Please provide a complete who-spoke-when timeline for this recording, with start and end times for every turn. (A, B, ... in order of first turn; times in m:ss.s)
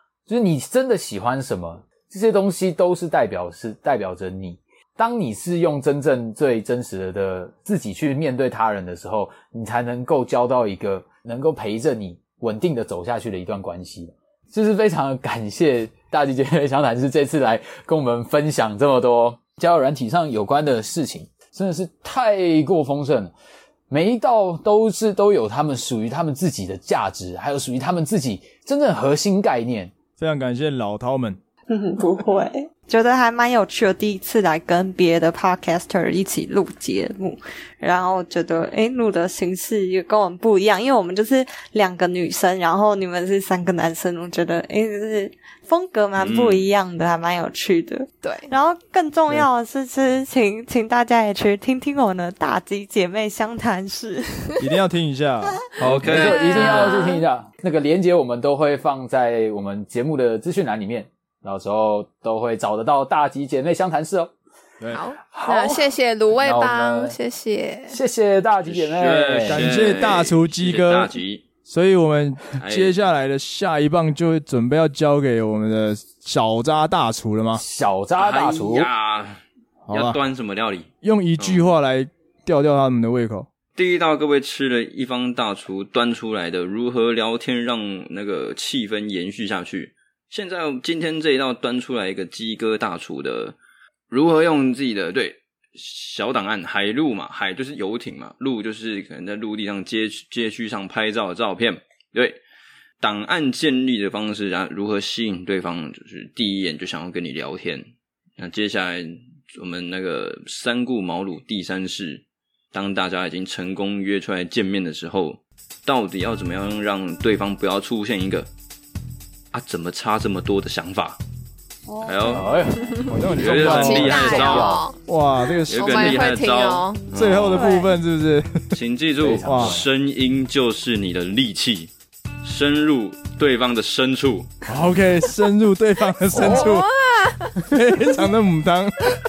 0:00.3-0:23.3 A
0:23.9-0:29.9 A
0:30.2-0:31.4 B
0:31.7-0:54.6 C
0:46.2-0:46.7 D
0:48.2-0:48.5 E
0:54.6-0:56.3 B
0:55.8-0:56.9 D
0:55.9-1:04.3 A
0:56.4-0:57.2 E
0:56.5-0:57.2 C
1:04.9-1:08.0 E
1:05.3-1:07.2 A
1:07.9-1:09.7 A
1:08.6-1:11.4 D
1:09.5-1:11.1 B
1:11.6-1:17.6 B
1:12.6-1:13.0 D
1:17.5-1:18.9 A
1:18.2-1:21.7 D
1:19.9-1:20.2 B
1:21.0-1:23.5 B
1:23.7-1:33.6 D
1:34.1-1:42.4 D
1:43.0-1:47.8 D
1:48.4-1:58.5 D
1:59.5-2:01.2 D
2:01.9-2:02.9 C
2:02.0-2:02.5 D
2:02.3-2:04.8 A
2:03.1-2:06.2 B
2:03.4-2:04.8 D
2:03.6-2:05.0 E
2:05.7-2:07.7 D
2:05.7-2:07.1 E
2:07.1-2:08.6 B
2:07.5-2:07.9 C
2:08.7-2:11.9 D
2:09.2-2:09.9 A
2:09.4-2:09.8 B
2:12.4-2:14.5 D
2:14.7-2:16.9 B
2:16.3-2:16.7 A
2:16.4-2:17.6 E
2:17.7-2:19.1 B